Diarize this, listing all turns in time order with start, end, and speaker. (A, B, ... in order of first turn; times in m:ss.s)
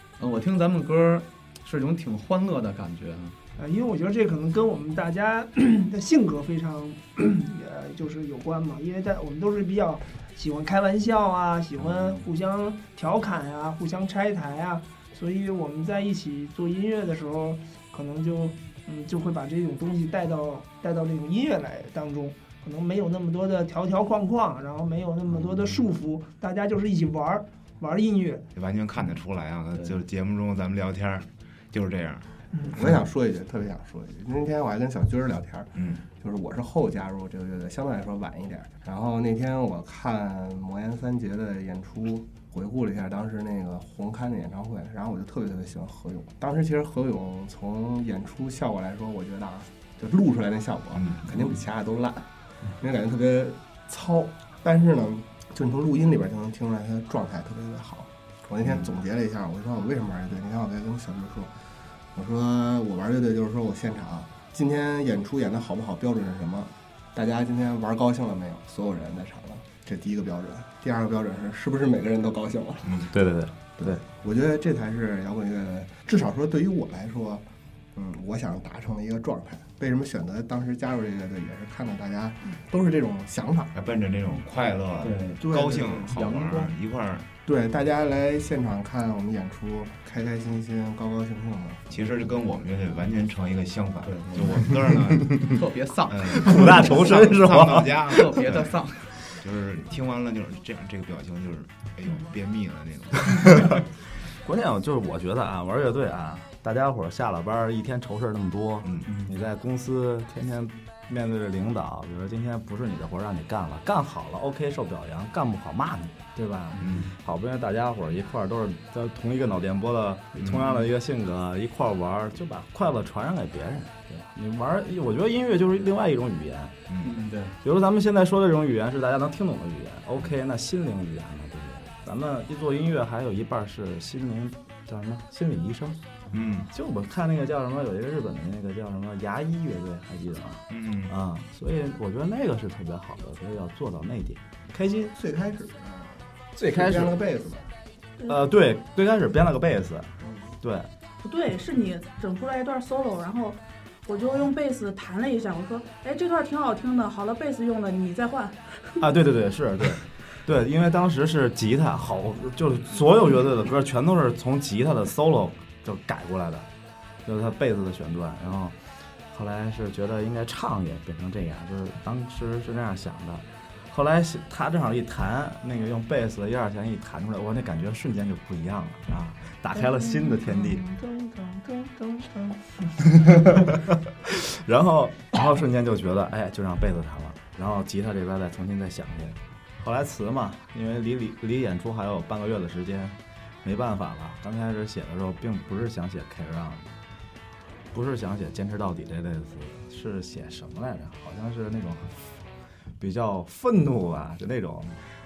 0:00.2-0:03.4 A
0:03.6-0:28.4 B
0:11.8-0:12.3 A
0:28.5-0:32.2 C
0:29.7-0:30.0 A
0:32.8-1:01.5 D
0:35.8-0:36.0 C
0:51.0-0:51.2 C
1:02.1-1:13.1 D
1:13.1-1:14.0 E
1:13.8-1:23.7 D
1:23.7-1:27.3 C
1:25.0-1:25.4 A
1:25.4-1:26.1 D
1:26.1-1:26.8 A
1:27.4-1:31.9 D
1:31.9-1:35.6 C
1:34.0-1:36.9 A
1:36.1-1:43.8 C
1:36.3-1:38.0 E
1:38.0-1:39.3 A
1:44.4-2:06.8 E
1:56.8-1:57.1 C
1:56.8-1:57.1 A
2:00.4-2:00.7 C
2:06.9-2:07.2 C
2:07.0-2:07.5 A
2:07.6-2:16.0 E
2:16.3-2:16.7 C
2:16.7-2:25.1 E
2:20.7-2:21.1 C
2:25.1-2:27.7 D
2:26.6-2:27.2 E
2:28.3-2:30.9 E
2:30.2-2:30.5 D
2:31.2-2:39.0 F
2:39.0-2:46.7 E
2:47.2-2:48.8 E
2:49.3-3:00.8 E
3:00.4-3:03.1 B
3:03.2-3:16.9 E
3:17.9-3:22.2 E
3:23.0-3:24.9 E